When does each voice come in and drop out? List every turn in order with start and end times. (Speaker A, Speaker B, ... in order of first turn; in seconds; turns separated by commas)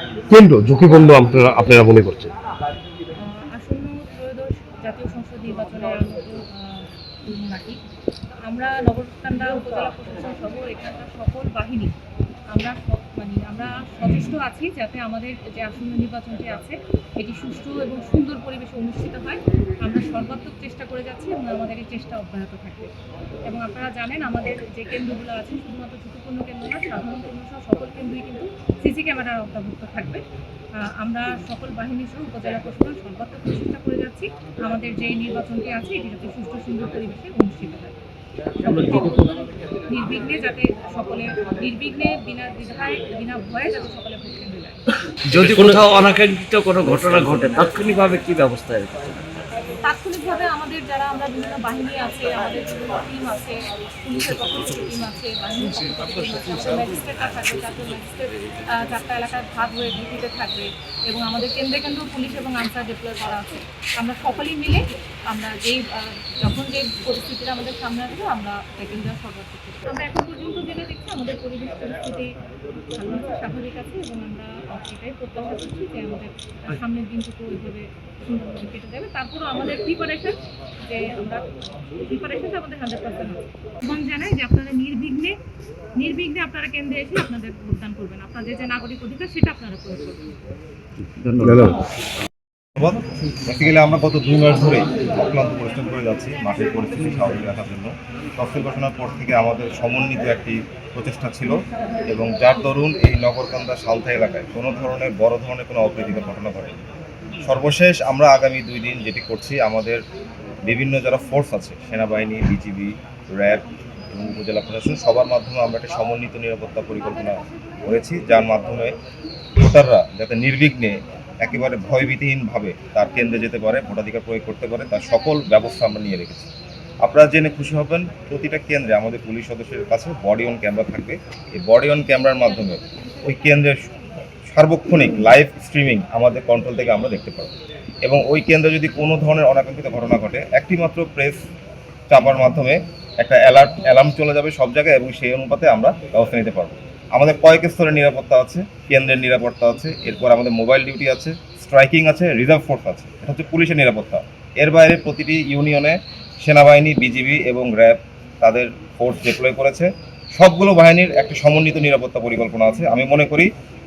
Speaker A: 0.3-2.3, Speaker B: 3.1-7.8, Speaker B: 8.4-11.9, Speaker B: 12.5-22.9, Speaker B: 23.4-38.0, Speaker B: 38.6-44.8, Speaker C: 38.6-39.3, Speaker C: 45.3-49.2, Speaker A: 45.4-45.8, Speaker B: 49.8-85.4, Speaker B: 85.9-90.3, Speaker C: 91.1-91.7, Speaker A: 91.4-91.8, Speaker D: 92.8-106.7, Speaker D: 107.4-110.0, Speaker D: 110.6-119.0, Speaker D: 119.6-126.5, Speaker D: 127.0-141.4, Speaker D: 142.1-163.5